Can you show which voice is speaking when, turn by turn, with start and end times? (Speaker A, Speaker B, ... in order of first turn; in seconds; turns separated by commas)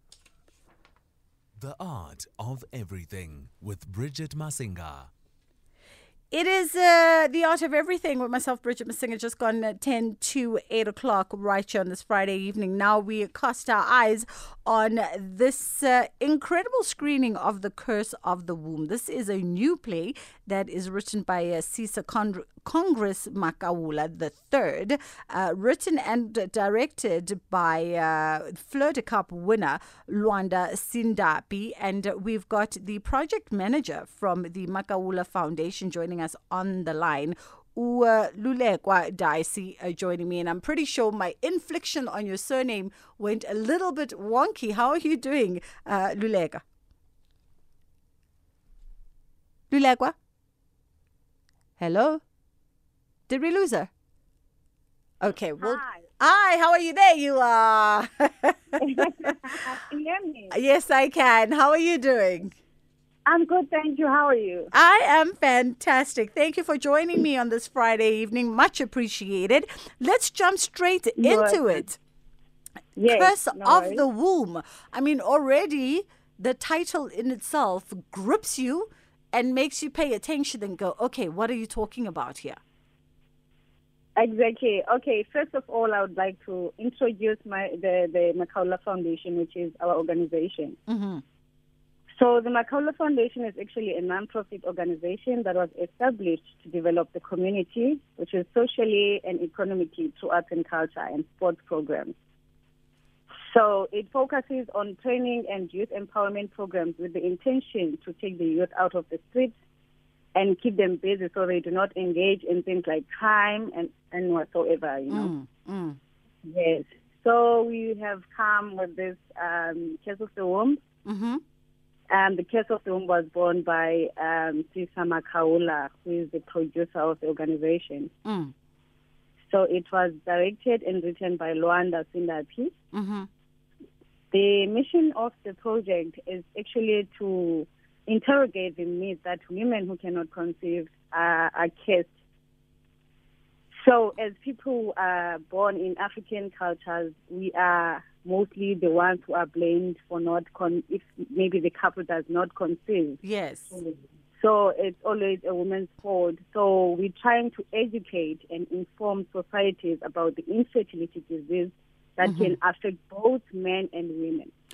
Speaker A: 1.6-5.1, Speaker B: 6.3-46.6, Speaker B: 49.7-50.1, Speaker B: 51.8-52.2, Speaker B: 53.3-53.9, Speaker B: 55.2-59.5, Speaker C: 55.6-56.0, Speaker C: 58.8-60.5, Speaker B: 60.5-62.5, Speaker C: 63.2-64.7, Speaker B: 64.7-72.0, Speaker C: 71.2-71.8, Speaker C: 73.0-74.0, Speaker B: 73.0-82.6, Speaker C: 84.2-90.8, Speaker B: 90.9-91.2, Speaker C: 92.2-102.1, Speaker C: 103.4-109.6, Speaker C: 110.3-115.3, Speaker B: 115.1-116.0, Speaker C: 116.4-120.8, Speaker B: 121.0-121.4, Speaker C: 122.1-128.1, Speaker B: 128.2-128.5, Speaker C: 129.5-132.7, Speaker B: 132.9-133.3, Speaker C: 134.3-142.1, Speaker C: 143.8-153.2, Speaker B: 153.2-153.8, Speaker C: 153.7-164.5, Speaker B: 162.2-162.6